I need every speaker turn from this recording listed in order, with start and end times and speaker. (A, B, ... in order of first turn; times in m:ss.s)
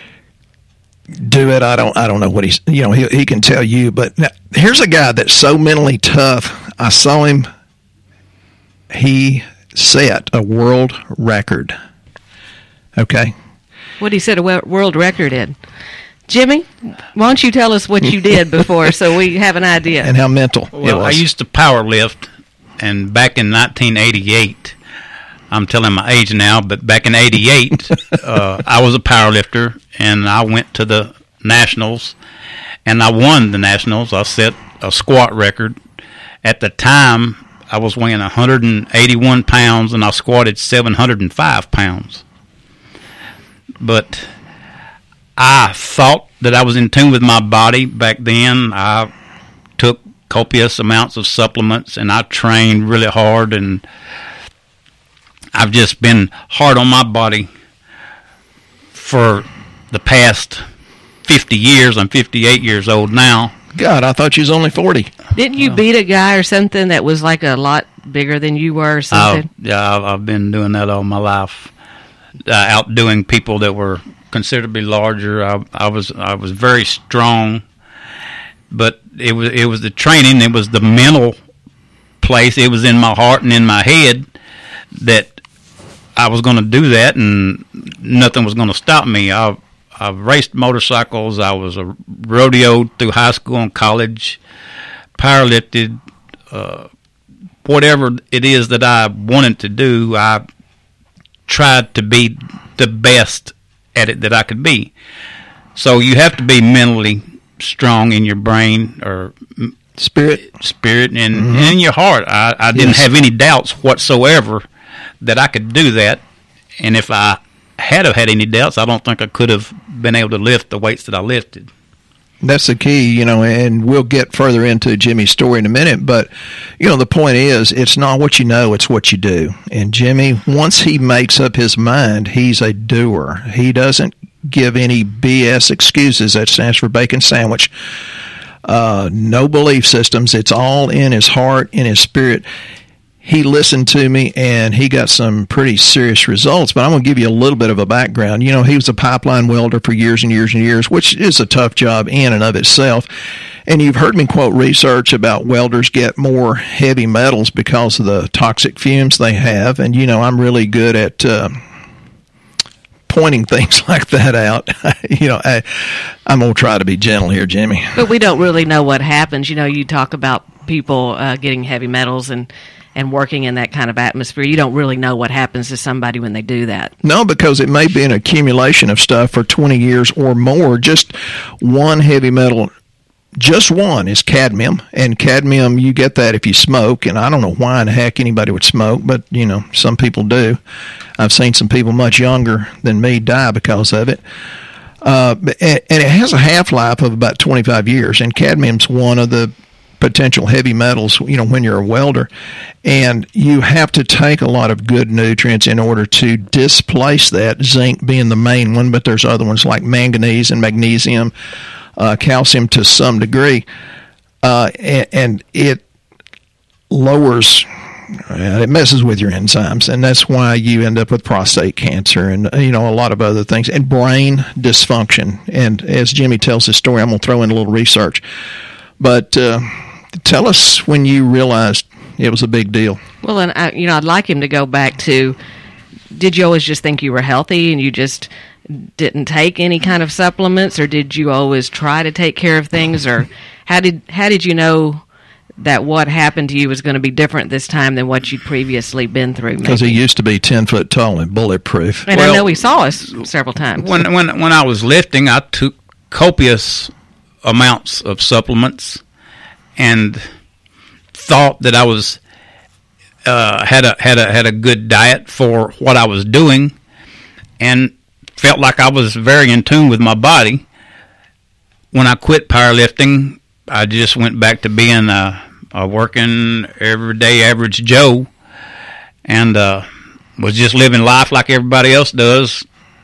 0:01.1-0:07.5 A
0:08.9-0:11.7 A
0:13.0-0:13.3 A
0:14.0-0:15.6 B
0:16.3-0:20.1 B
0:20.0-0:21.2 A
0:20.7-0:24.8 C
0:25.5-0:32.1 C
0:32.8-0:35.8 C
0:36.4-0:42.2 C
0:43.8-0:44.3 C
0:45.4-0:49.1 C
0:49.8-0:53.8 C
0:55.5-0:57.5 C
0:58.9-1:00.6 C
1:01.2-1:03.5 C
1:03.7-1:05.1 A
1:05.3-1:09.5 B
1:09.1-1:11.7 C
1:12.4-1:17.6 C
1:18.7-1:21.3 C
1:22.2-1:24.2 C
1:24.9-1:25.4 C
1:26.2-1:34.4 C
1:35.2-1:36.0 C
1:36.5-1:36.9 C
1:37.6-1:40.4 C
1:41.5-1:44.9 C
1:45.8-1:49.7 C
1:50.0-1:50.4 A
1:50.4-1:54.6 C
1:51.4-1:51.8 A
1:52.7-1:53.0 A
1:55.2-1:56.2 C
1:56.8-2:01.7 C
2:02.4-2:17.7 A
2:18.6-2:22.4 A
2:23.2-2:33.1 A
2:33.7-2:41.6 A
2:43.1-2:48.0 A
2:47.9-2:56.9 B
2:57.0-3:02.7 A
3:03.4-3:10.6 A
3:11.2-3:14.2 A
3:15.0-3:22.3 A
3:22.8-3:31.3 A
3:32.0-3:33.6 A
3:34.4-3:35.8 A
3:36.9-3:48.2 A
3:49.0-3:53.0 A
3:53.2-3:55.4 B
3:56.1-4:05.0 B
4:05.6-4:10.0 B
4:09.6-4:12.1 A
4:12.1-4:13.9 B
4:12.1-4:12.5 C
4:13.8-4:16.9 C
4:17.4-4:19.0 C
4:19.8-4:20.2 C
4:21.1-4:22.2 C
4:23.2-4:26.7 C
4:27.6-4:30.6 C
4:31.9-4:38.3 C
4:39.2-4:39.8 C
4:40.4-4:42.6 C